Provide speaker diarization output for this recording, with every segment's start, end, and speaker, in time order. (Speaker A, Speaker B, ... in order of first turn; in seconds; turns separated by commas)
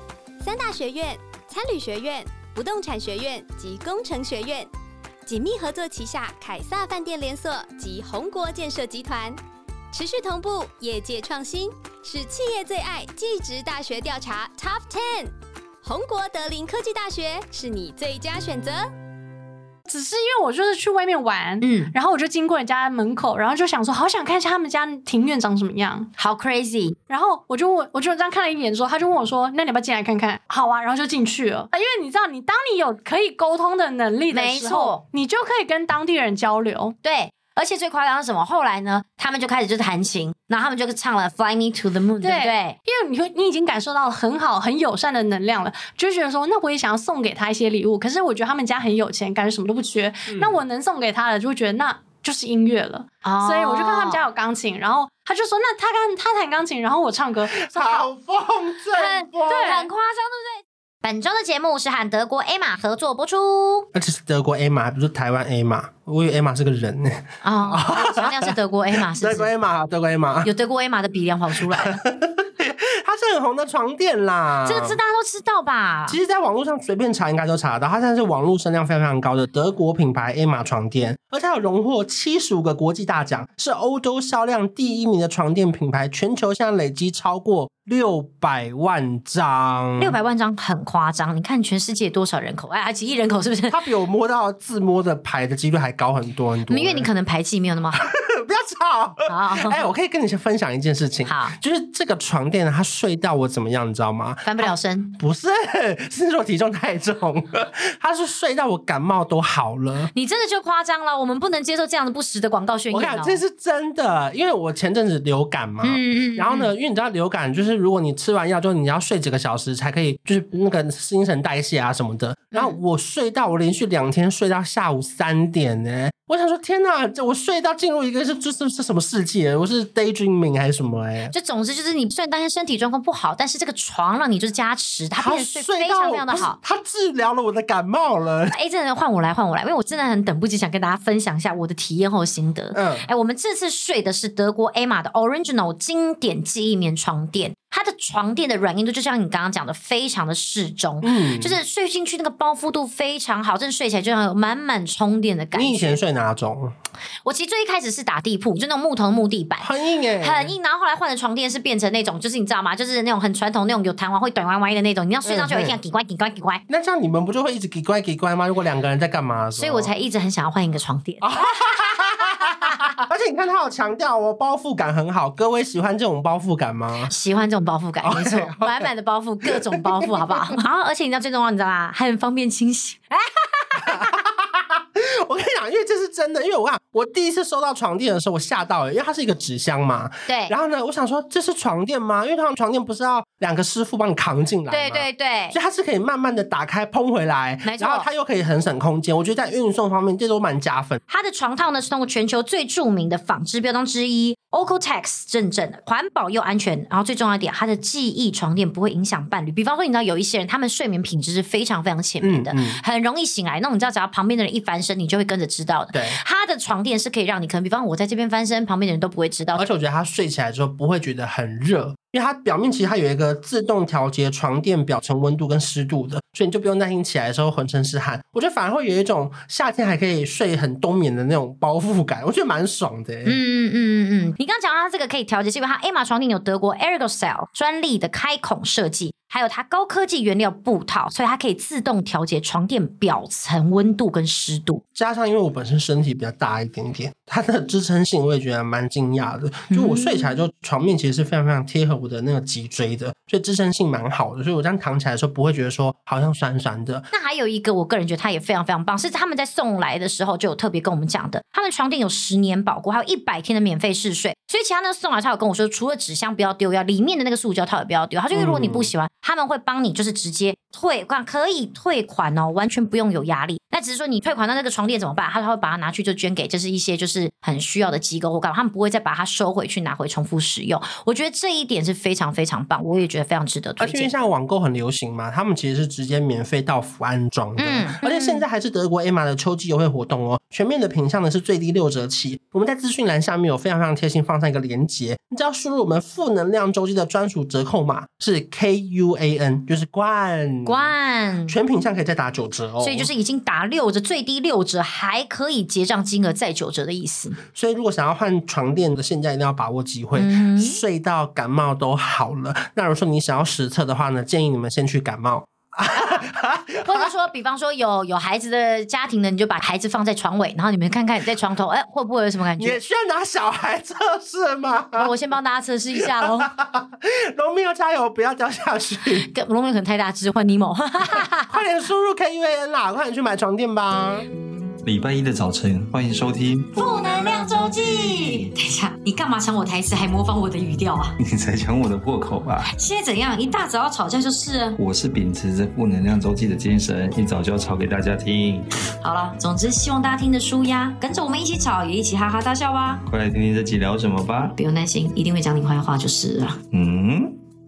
Speaker A: 0.4-4.7, Speaker A: 5.2-9.4, Speaker A: 9.9-18.9, Speaker B: 19.9-26.1, Speaker C: 21.6-21.9, Speaker C: 26.2-27.0, Speaker B: 27.1-36.9, Speaker C: 34.3-35.0, Speaker C: 37.0-42.8, Speaker B: 42.2-58.0, Speaker D: 50.3-50.6, Speaker C: 53.2-54.2, Speaker D: 57.6-59.7, Speaker C: 58.9-63.9, Speaker B: 59.5-59.9, Speaker D: 63.9-70.5, Speaker C: 67.4-69.5, Speaker C: 70.4-72.0, Speaker D: 71.5-75.0, Speaker C: 74.6-76.2, Speaker D: 76.1-90.2, Speaker C: 90.0-93.8, Speaker D: 93.7-97.1, Speaker C: 96.7-98.1, Speaker D: 98.0-110.1, Speaker C: 99.3-99.8, Speaker C: 101.3-101.5, Speaker C: 104.4-105.1, Speaker C: 110.1-113.4, Speaker D: 112.9-131.3, Speaker C: 115.8-116.7, Speaker C: 131.3-136.6, Speaker D: 135.2-138.6, Speaker C: 138.5-156.0, Speaker D: 142.7-143.1, Speaker D: 151.0-151.6, Speaker D: 155.5-156.7, Speaker C: 157.2-166.6, Speaker D: 159.6-160.5, Speaker D: 165.2-165.8, Speaker D: 166.7-169.9, Speaker C: 169.6-172.7, Speaker D: 171.2-177.1, Speaker C: 177.1-184.0, Speaker D: 178.0-178.9, Speaker D: 179.4-180.6, Speaker D: 183.8-201.0, Speaker C: 190.3-190.5, Speaker C: 194.7-195.6, Speaker C: 197.6-198.1, Speaker C: 201.1-219.6, Speaker D: 212.2-212.8, Speaker D: 215.9-216.2, Speaker D: 219.6-233.4, Speaker C: 233.2-244.8, Speaker D: 244.9-257.1, Speaker C: 249.7-250.3, Speaker C: 257.1-284.1, Speaker D: 268.3-268.9, Speaker D: 283.8-300.9, Speaker C: 287.6-288.4, Speaker C: 300.6-301.6, Speaker D: 301.5-303.1, Speaker C: 302.8-307.4, Speaker D: 307.5-317.1, Speaker C: 310.1-310.8, Speaker C: 315.9-316.2, Speaker C: 316.8-322.8, Speaker D: 322.6-325.1, Speaker C: 325.0-326.5, Speaker D: 325.9-329.3, Speaker C: 329.2-331.6, Speaker D: 331.0-334.3, Speaker E: 334.8-337.3, Speaker C: 336.7-341.2, Speaker E: 341.2-342.7, Speaker C: 342.6-344.8, Speaker E: 344.8-348.7, Speaker C: 349.0-353.0, Speaker E: 353.1-354.6, Speaker C: 354.6-356.6, Speaker E: 356.7-357.4